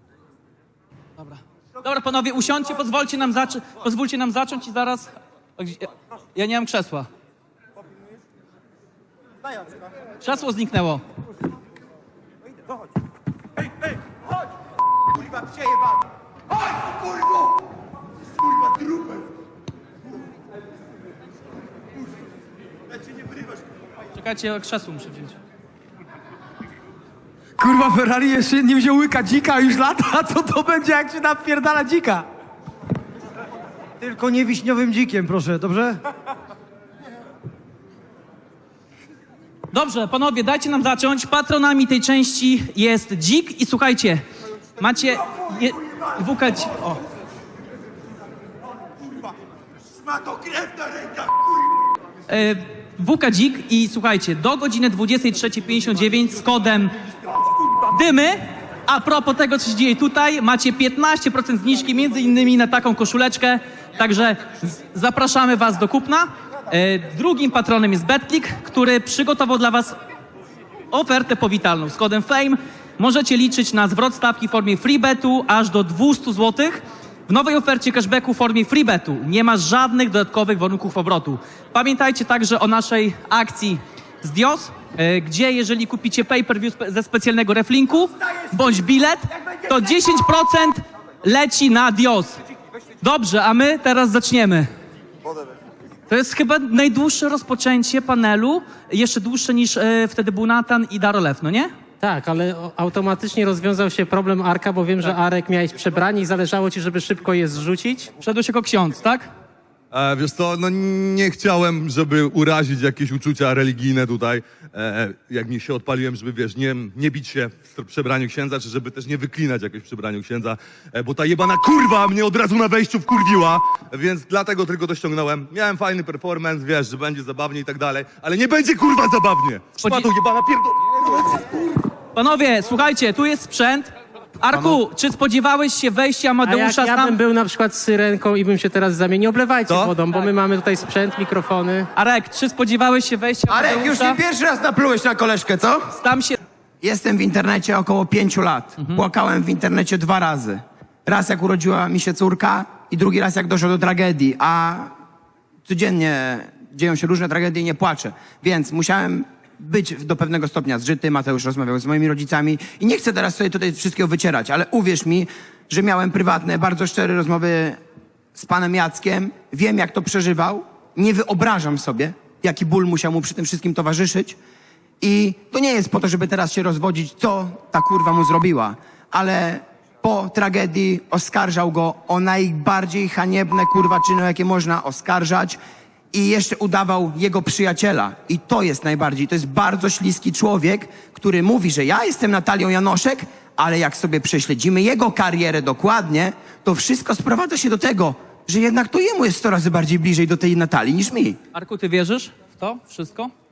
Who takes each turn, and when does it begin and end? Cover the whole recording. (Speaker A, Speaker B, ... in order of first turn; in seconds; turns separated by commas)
Speaker A: 1.2-7.1, Speaker A: 10.2-11.0, Speaker A: 24.2-25.4, Speaker B: 28.5-32.2, Speaker B: 34.1-35.9, Speaker A: 39.7-44.2, Speaker A: 44.8-47.0, Speaker A: 52.3-56.9, Speaker A: 57.9-70.0, Speaker A: 70.9-92.4, Speaker A: 93.0-94.7, Speaker A: 96.1-101.7, Speaker C: 102.0-108.1, Speaker A: 108.2-109.3, Speaker D: 109.9-131.4, Speaker A: 129.8-130.1, Speaker A: 132.2-133.9, Speaker A: 134.4-137.2, Speaker D: 134.5-134.8, Speaker C: 136.4-141.9, Speaker D: 139.7-140.0, Speaker A: 141.9-144.2, Speaker E: 143.5-145.8, Speaker A: 145.9-146.4, Speaker E: 146.8-154.9, Speaker A: 148.8-149.0, Speaker E: 155.7-167.8, Speaker E: 168.4-174.4, Speaker E: 175.0-185.6, Speaker E: 186.1-201.4, Speaker A: 201.5-203.3